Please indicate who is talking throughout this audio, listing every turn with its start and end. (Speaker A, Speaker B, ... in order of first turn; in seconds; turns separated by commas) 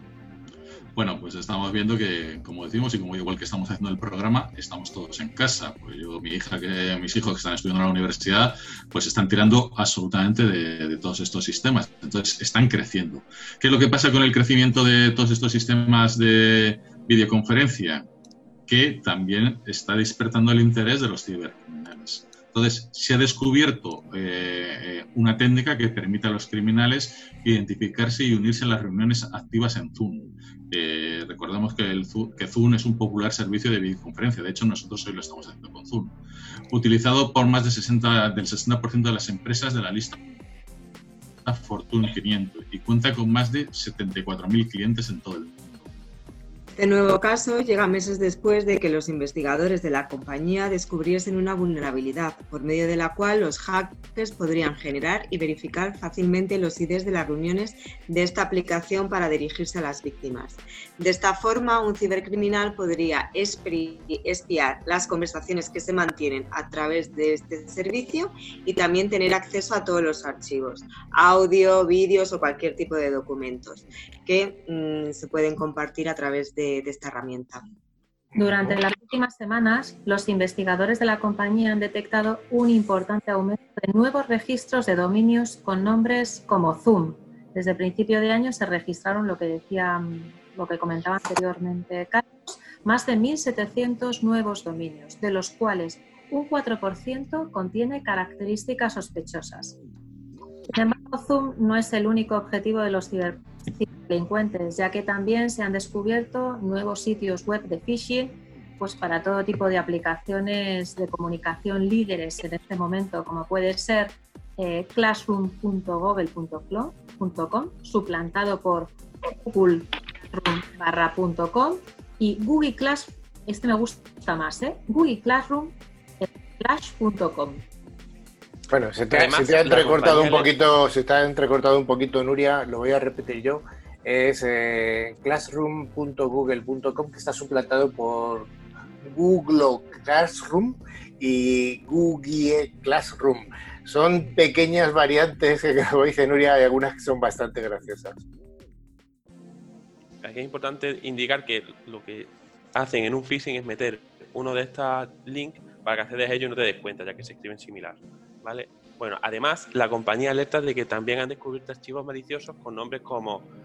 Speaker A: 0.9-18.1, Speaker A: 18.7-36.1, Speaker A: 36.7-40.2, Speaker A: 41.5-45.9, Speaker B: 46.8-77.6, Speaker C: 78.4-78.8, Speaker D: 78.4-99.8, Speaker D: 100.7-127.6, Speaker C: 128.7-138.5, Speaker E: 129.1-130.5, Speaker C: 139.0-148.2, Speaker E: 150.2-163.4